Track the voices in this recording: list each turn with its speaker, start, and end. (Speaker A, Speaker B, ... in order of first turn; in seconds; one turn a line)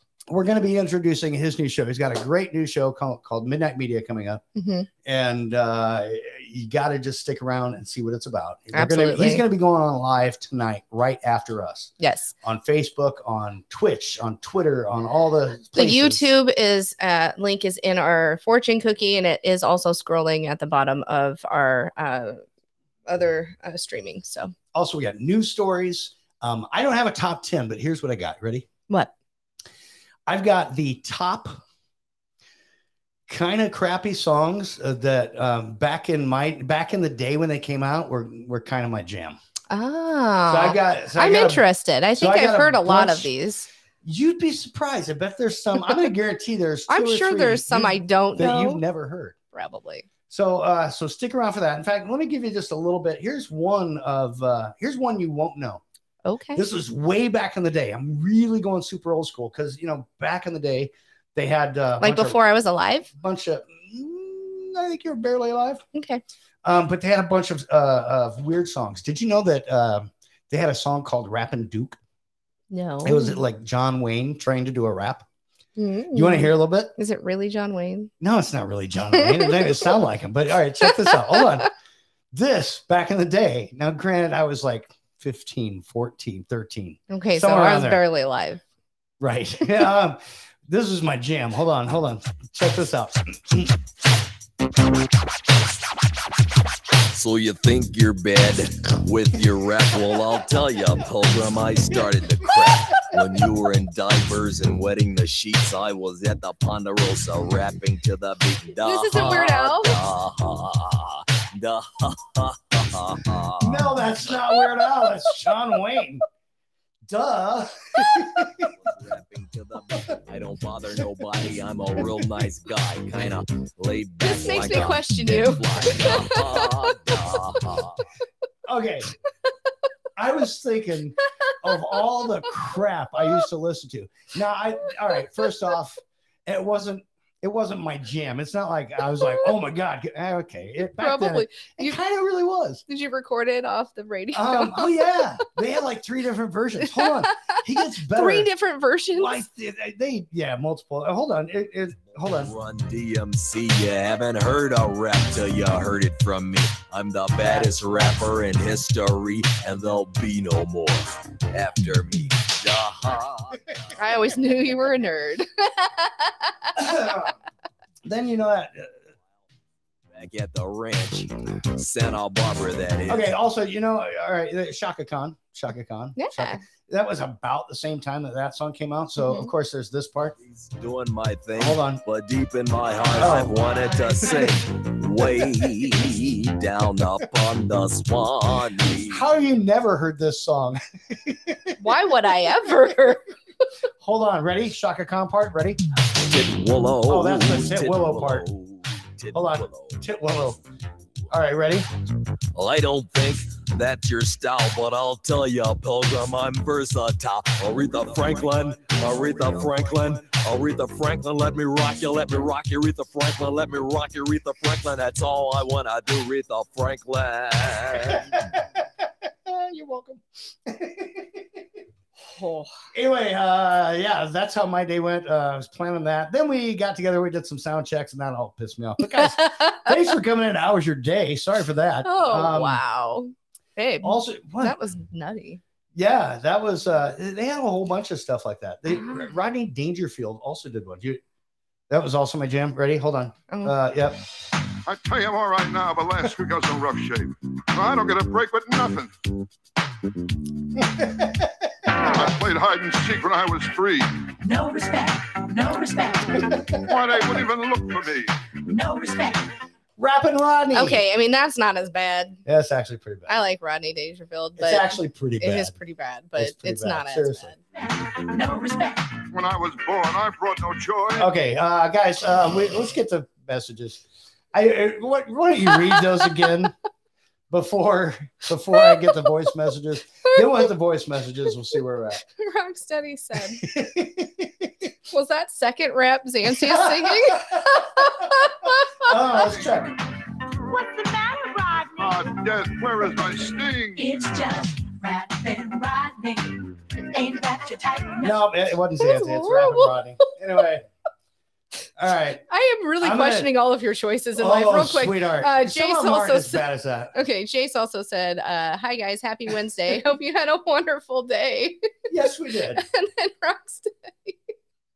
Speaker A: 0.3-4.4
Speaker B: 4.6-4.9
Speaker A: 5.0-11.9
Speaker B: 8.7-9.4
Speaker B: 12.0-12.3
Speaker A: 12.4-16.2
Speaker B: 15.8-22.4
Speaker B: 23.1-24.5
Speaker A: 24.7-28.7
Speaker A: 30.3-31.6
Speaker A: 33.3-39.4
Speaker B: 39.7-43.7
Speaker A: 40.5-41.6
Speaker A: 42.2-43.3
Speaker A: 44.0-49.4
Speaker B: 46.9-48.8
Speaker B: 49.5-50.1
Speaker A: 50.3-55.8
Speaker B: 56.2-56.6
Speaker A: 56.5-62.4
Speaker B: 62.0-63.1
Speaker A: 63.1-65.8
Speaker B: 65.9-66.2
Speaker A: 66.6-72.0
Speaker B: 72.7-73.4
Speaker A: 73.0-75.2
Speaker B: 75.8-78.1
Speaker A: 76.1-76.9
Speaker A: 78.2-81.7
Speaker B: 79.1-79.9
Speaker B: 80.8-81.5
Speaker A: 82.3-88.0
Speaker B: 87.1-88.6
Speaker A: 89.2-93.7
Speaker C: 97.1-113.9
Speaker B: 108.8-109.9
Speaker A: 113.6-116.2
Speaker A: 117.1-118.7
Speaker C: 118.8-128.0
Speaker B: 124.2-126.7
Speaker A: 128.7-129.1
Speaker A: 130.2-142.8
Speaker B: 131.4-131.8
Speaker B: 139.2-139.5
Speaker B: 141.0-142.0
Speaker B: 142.9-145.1
Speaker A: 144.3-148.5
Speaker B: 146.9-147.4
Speaker B: 148.1-149.4
Speaker A: 149.2-152.5
Speaker C: 152.1-163.6
Speaker A: 157.4-158.1
Speaker B: 164.0-167.0
Speaker A: 166.8-167.3
Speaker A: 168.0-168.9
Speaker C: 170.2-173.3
Speaker A: 173.1-180.3
Speaker B: 176.2-176.6
Speaker B: 179.2-179.5
Speaker C: 180.8-189.3
Speaker A: 181.6-182.0
Speaker A: 183.2-183.6
Speaker A: 184.2-184.5
Speaker A: 189.1-191.8
Speaker B: 191.8-193.2
Speaker A: 194.0-195.8
Speaker C: 196.1-200.0
Speaker A: 197.1-198.5
Speaker A: 199.3-200.6
Speaker A: 201.3-201.9
Speaker C: 202.6-218.5
Speaker A: 208.1-210.3
Speaker A: 218.1-218.8
Speaker A: 219.4-221.6
Speaker B: 222.3-222.7
Speaker A: 222.9-232.8
Speaker B: 229.2-229.9
Speaker B: 232.1-235.6
Speaker A: 234.0-234.8
Speaker A: 235.9-241.2
Speaker B: 238.9-239.3
Speaker A: 241.9-244.2
Speaker B: 243.5-243.8
Speaker D: 244.9-249.1
Speaker D: 252.0-254.1
Speaker E: 254.4-256.6
Speaker D: 256.8-258.3
Speaker E: 258.7-259.5
Speaker A: 260.0-261.0
Speaker B: 260.7-262.4
Speaker A: 262.5-263.3
Speaker B: 263.3-267.6
Speaker A: 264.6-265.8
Speaker A: 266.4-267.5
Speaker E: 267.8-269.1
Speaker D: 269.3-271.3
Speaker A: 271.2-276.7
Speaker A: 277.5-282.2
Speaker B: 278.8-279.2
Speaker B: 280.3-280.6
Speaker B: 282.4-283.6
Speaker A: 283.6-284.7
Speaker B: 285.1-289.1
Speaker A: 286.5-287.6
Speaker A: 289.0-289.9
Speaker E: 290.7-292.1
Speaker D: 292.0-294.3
Speaker E: 294.0-298.5
Speaker A: 298.2-300.9
Speaker B: 299.0-299.9
Speaker A: 302.0-302.4
Speaker B: 302.5-311.8
Speaker A: 303.0-303.5
Speaker A: 304.4-307.1
Speaker A: 312.1-312.8
Speaker B: 312.8-314.4